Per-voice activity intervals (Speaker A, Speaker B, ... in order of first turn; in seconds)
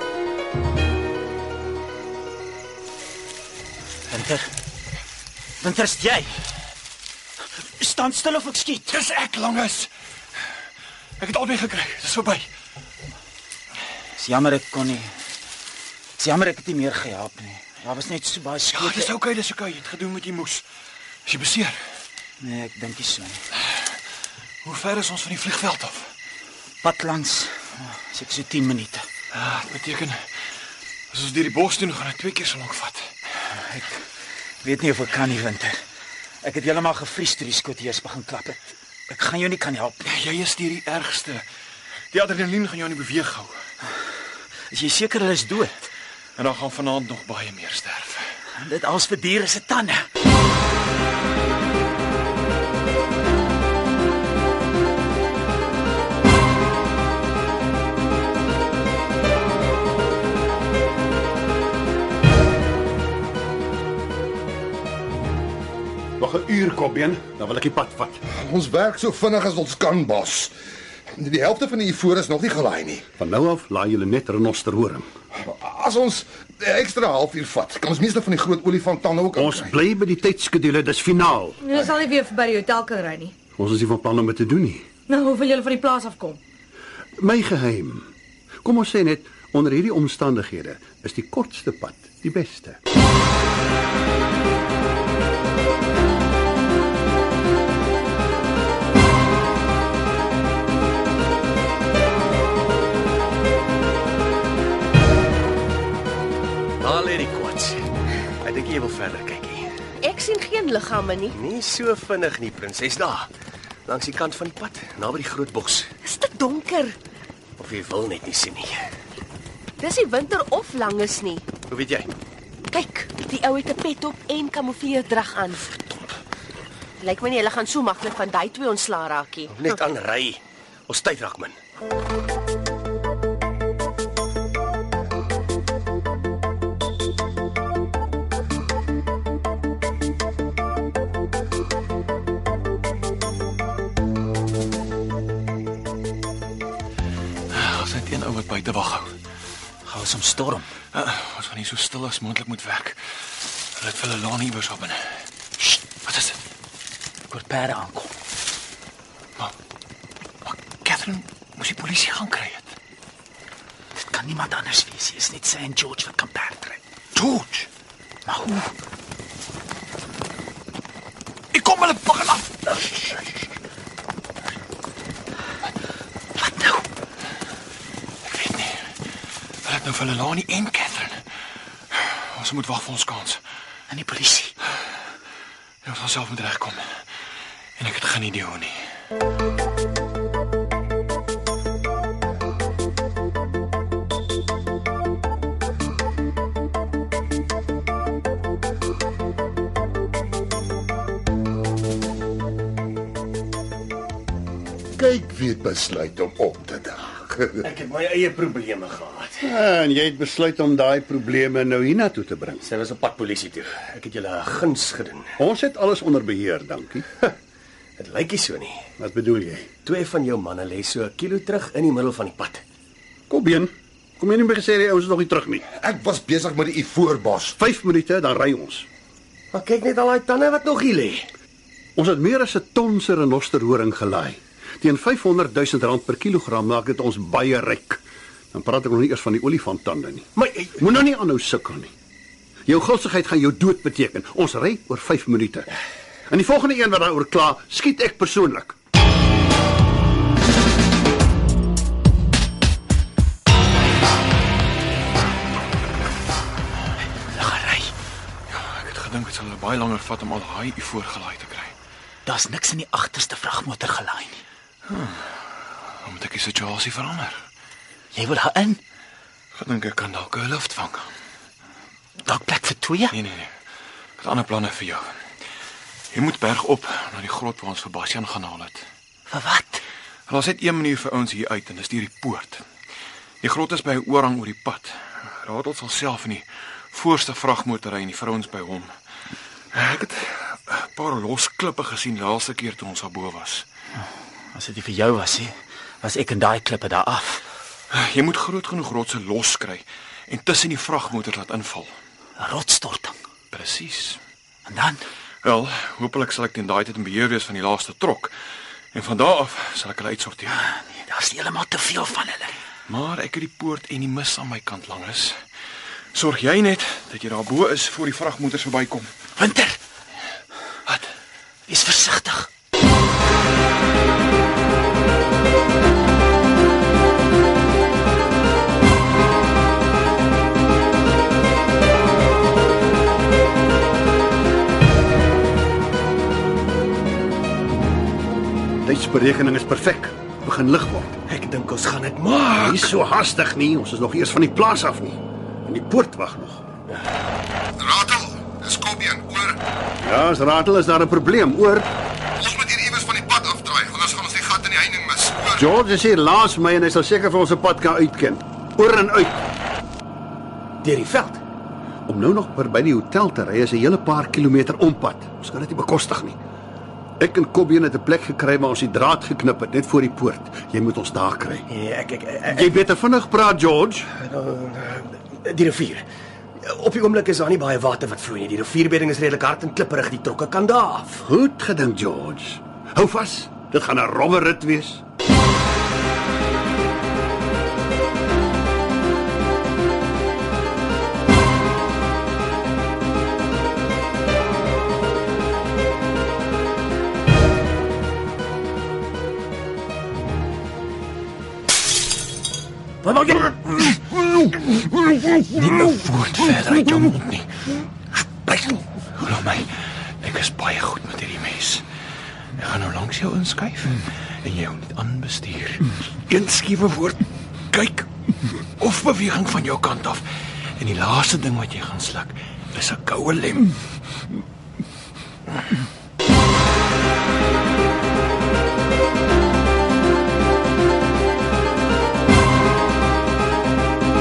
Speaker A: 4.1-4.5, 5.6-6.4, 7.8-8.9, 14.2-15.1, 16.2-19.1, 22.4-23.4, 26.8-29.1, 33.6-34.0, 34.6-35.8, 36.4-38.6, 39.1-40.0, 44.7-45.8, 48.6-50.0, 149.9-150.7, 157.3-158.1, 164.0-166.8, 168.3-168.7, 176.4-176.8, 183.9-184.5, 257.3-257.9, 262.3-264.4, 268.1-268.8, 272.3-273.1, 279.3-279.8, 294.5-297.4, 302.4-303.1, 304.7-305.0, 311.1-312.5, 319.4-319.8, 321.7-322.5
Speaker B: 8.9-9.9, 11.2-12.5, 18.7-20.7, 21.3-21.8, 24.6-26.1, 29.3-30.2, 31.1-33.1, 40.1-41.5, 42.1-43.6, 46.4-48.4, 147.5-149.1, 150.9-153.0, 153.8-155.2, 156.0-156.4, 160.4-162.7, 167.2-167.7, 171.5-173.2, 178.2-178.9, 179.6-181.2, 181.9-183.4, 185.8-186.9, 187.8-188.8, 258.5-261.7, 264.9-265.4, 266.0-267.4, 269.5-271.1, 273.1-273.5, 274.2-275.1, 276.1-278.9, 280.3-282.6, 283.4-288.9, 289.7-293.7, 297.9-302.0, 303.5-304.2, 305.4-308.3, 308.9-310.6, 312.9-315.4, 316.1-319.1, 405.1-407.8, 408.4-409.7, 410.2-411.8, 412.6-418.1, 418.8-420.2, 420.8-423.7
Speaker C: 66.2-68.2, 73.2-75.1, 79.3-81.6, 83.6-84.9, 87.2-88.1, 88.6-92.8, 209.4-212.6, 215.4-217.1, 219.0-219.7, 223.3-225.7, 227.6-228.9, 232.0-238.0, 238.5-241.9, 242.7-245.7, 246.3-248.8, 338.8-341.2, 342.6-346.6, 350.0-351.9, 355.6-359.4, 362.1-366.4, 367.2-371.7, 372.5-374.1, 381.2-385.0
Speaker D: 68.4-70.5, 71.2-73.1, 75.5-79.8, 204.9-207.6, 225.8-227.6, 347.8-349.6, 352.4-355.7
Speaker E: 81.6-83.3, 85.1-86.4
Speaker F: 106.8-107.8, 108.4-109.7, 111.3-113.3, 113.9-115.9, 117.6-118.8, 121.7-122.1, 129.5-131.6, 207.6-209.4, 212.6-215.3, 218.0-218.8, 219.8-222.6, 229.5-231.3, 240.4-240.8, 341.3-342.9, 360.8-361.4, 371.7-372.8, 374.2-376.1, 376.6-381.2, 403.1-403.7
Speaker G: 110.0-111.4, 116.0-117.0, 119.8-121.5, 122.7-125.7, 127.0-129.8